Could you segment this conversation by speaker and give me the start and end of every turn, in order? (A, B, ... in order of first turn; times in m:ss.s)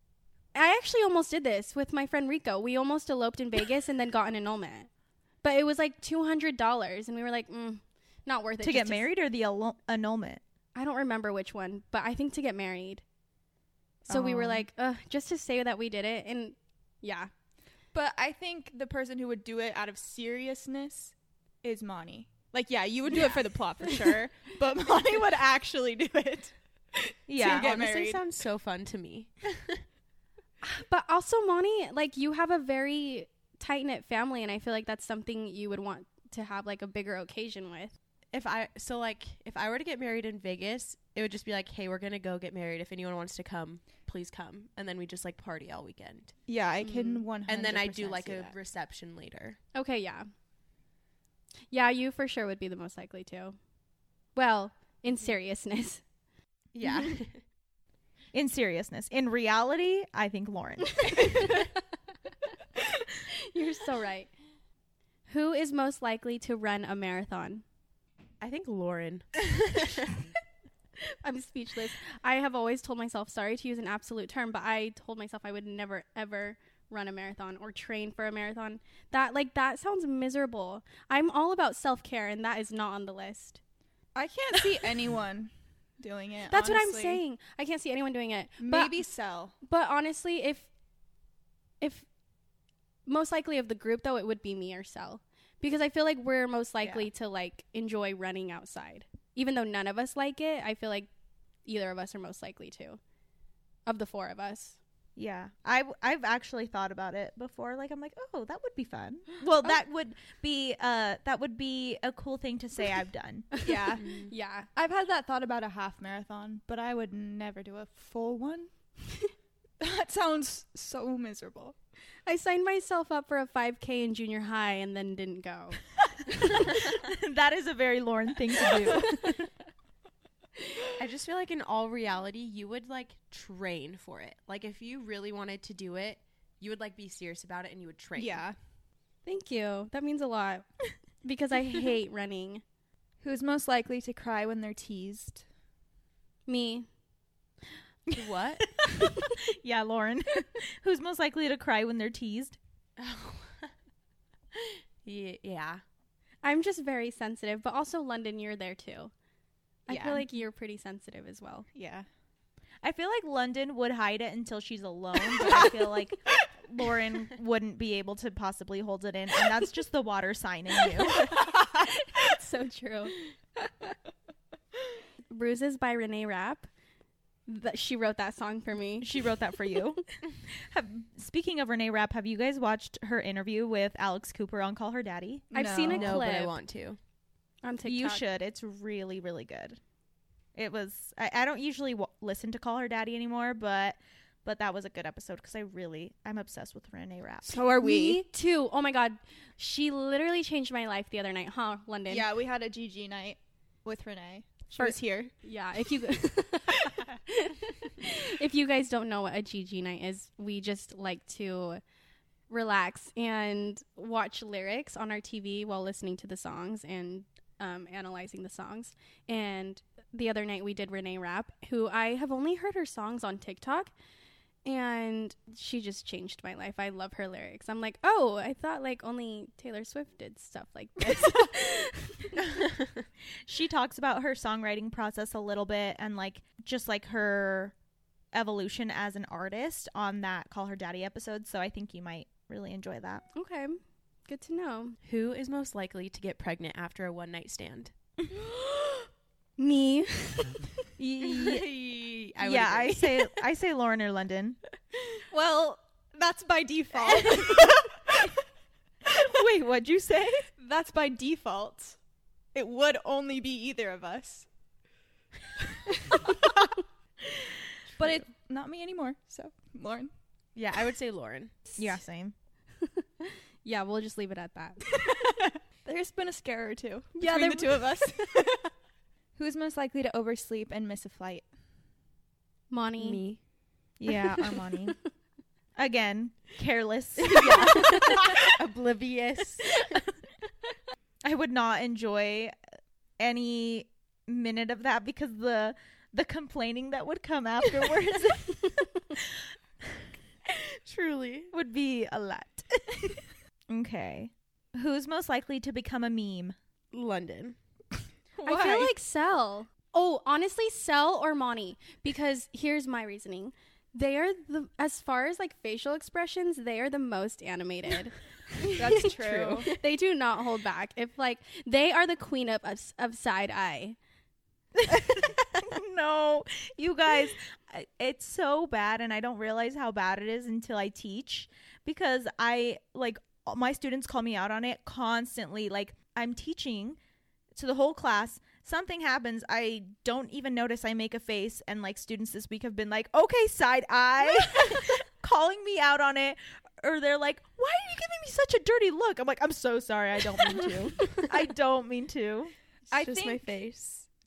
0:00.5-0:04.9 A
0:05.4-0:09.1 A
0:08.6-0:10.4 B
0:10.8-0:13.0 A
0:14.1-0:14.6 B
0:14.1-0:17.3 A
0:17.9-0:28.2 C
0:23.1-0:23.4 A
0:23.9-0:24.2 A
0:27.3-0:27.7 B
0:27.4-0:29.8 D
0:30.6-0:37.9 A
0:38.3-0:46.3 D
0:46.5-0:48.6 C
0:46.8-0:47.3 A
0:47.5-0:49.6 D
0:49.7-0:50.3 A
0:51.7-0:53.6 A
0:54.4-0:56.0 A
0:56.7-0:57.4 D
0:58.3-1:01.3 B
1:01.0-1:01.7 A
1:03.3-1:04.3 A
1:05.3-1:07.6 A
1:08.4-1:10.1 D
1:11.2-1:23.6 A
1:24.2-1:27.2 C
1:26.5-1:29.0 A
1:28.6-1:29.5 C
1:29.6-1:30.7 A
1:31.8-1:32.1 A
1:33.1-1:41.1 A
1:41.7-1:43.0 A
1:43.9-1:44.8 A
1:45.2-1:53.5 B
1:53.6-1:54.7 A
1:53.6-1:58.7 C
1:54.0-1:54.3 D
1:59.8-2:01.8 C
2:02.3-2:06.7 A
2:06.8-2:09.4 B
2:11.0-2:18.4 D
2:18.2-2:18.6 C
2:19.3-2:20.7 A
2:21.2-2:22.6 A
2:23.2-2:25.4 C
2:26.5-2:26.9 A
2:28.1-2:28.6 B
2:28.2-2:28.6 D
2:29.6-2:32.6 B
2:33.0-2:33.7 D
2:34.6-2:35.8 D
2:36.4-2:39.1 A
2:39.9-2:41.7 A
2:39.9-2:40.2 C
2:41.8-2:42.1 C
2:42.8-2:51.3 B
2:51.2-2:53.9 A
2:51.3-2:51.7 C
2:55.3-2:56.7 A
2:57.5-2:59.2 A
2:59.0-3:05.5 B
3:05.5-3:06.6 A
3:05.5-3:06.2 C
3:05.9-3:07.0 D
3:07.6-3:08.2 A
3:07.8-3:09.8 B
3:10.6-3:17.6 B
3:17.4-3:18.2 C
3:17.8-3:22.3 A
3:22.1-3:25.3 C
3:24.8-3:31.8 A
3:32.5-3:43.9 A
3:44.6-3:52.4 A
3:53.5-3:57.8 B
3:58.3-4:03.2 B
4:03.4-4:05.0 A
4:05.0-4:07.9 D
4:09.6-4:10.7 A
4:11.0-4:11.7 B
4:11.2-4:13.3 D
4:12.4-4:14.6 B
4:15.3-4:18.3 C
4:17.0-4:17.6 D
4:19.2-4:20.5 B
4:20.6-4:22.0 C
4:22.5-4:24.5 C
4:26.1-4:26.7 C
4:27.2-4:30.1 C
4:30.6-4:31.5 D
4:31.8-4:32.3 B
4:32.8-4:35.0 A
4:35.1-4:38.6 C
4:37.2-4:38.2 A
4:39.4-4:41.5 C
4:42.7-4:43.2 A
4:43.0-4:43.4 D
4:44.0-4:45.0 B
4:45.8-4:47.9 B
4:47.3-4:50.0 D
4:51.2-4:52.6 B
4:53.2-4:59.2 B
5:00.7-5:01.5 D
5:01.5-5:03.2 B
5:03.7-5:06.6 B
5:06.9-5:07.6 D
5:08.4-5:08.9 B
5:08.4-5:19.1 A
5:18.7-5:19.7 C
5:18.9-5:19.8 D
5:19.6-5:24.0 A
5:24.8-5:37.0 B
5:37.6-5:52.5 B
5:52.9-5:53.5 C
5:52.9-5:54.1 D